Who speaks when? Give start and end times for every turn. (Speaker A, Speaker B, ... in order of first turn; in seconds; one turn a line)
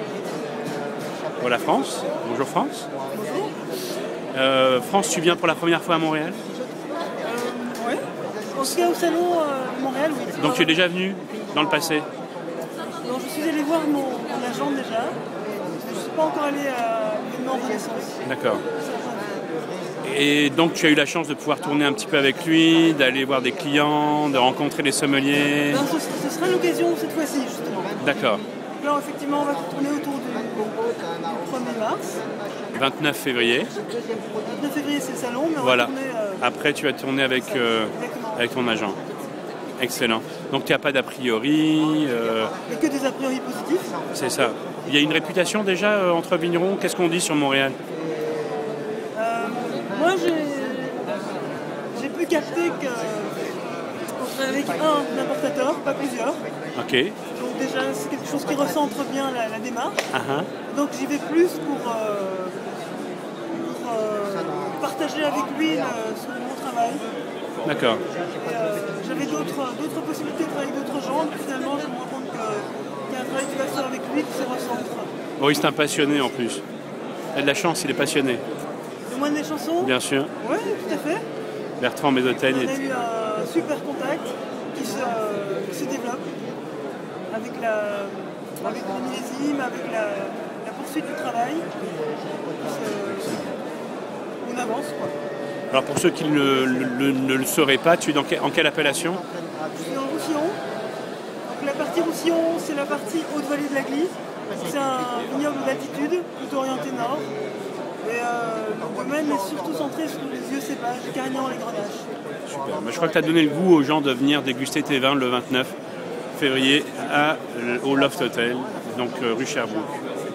Speaker A: 1.4-2.9
Speaker B: 3.1-3.5
Speaker A: 4.3-6.4
Speaker B: 7.2-10.8
Speaker A: 10.4-12.1
Speaker B: 13.0-18.2
Speaker A: 18.2-18.6
Speaker B: 18.7-19.3
Speaker A: 20.0-25.8
Speaker B: 25.7-28.0
Speaker A: 28.0-28.4
Speaker B: 28.8-32.2
Speaker A: 32.7-33.7
Speaker B: 34.4-36.4
Speaker A: 35.6-39.0
Speaker B: 37.9-38.5
Speaker A: 39.8-42.5
Speaker B: 42.6-44.0
Speaker A: 44.1-47.8
Speaker B: 49.1-56.4
Speaker A: 56.7-57.2
Speaker B: 57.3-60.1
Speaker A: 60.1-60.5
Speaker B: 60.7-67.0
Speaker A: 67.6-68.0
Speaker B: 68.1-75.1
Speaker A: 75.4-76.6
Speaker A: 77.3-78.4
Speaker B: 79.1-81.2
Speaker A: 79.8-80.3
Speaker A: 81.8-82.7
Speaker B: 82.3-86.4
Speaker B: 87.3-91.8
Speaker B: 92.5-93.5
Speaker A: 93.2-93.5
Speaker B: 94.4-95.1
Speaker A: 95.7-99.2
Speaker B: 99.7-100.6
Speaker B: 101.5-107.3
Speaker B: 108.0-112.1
Speaker A: 112.5-115.7
Speaker A: 116.3-120.0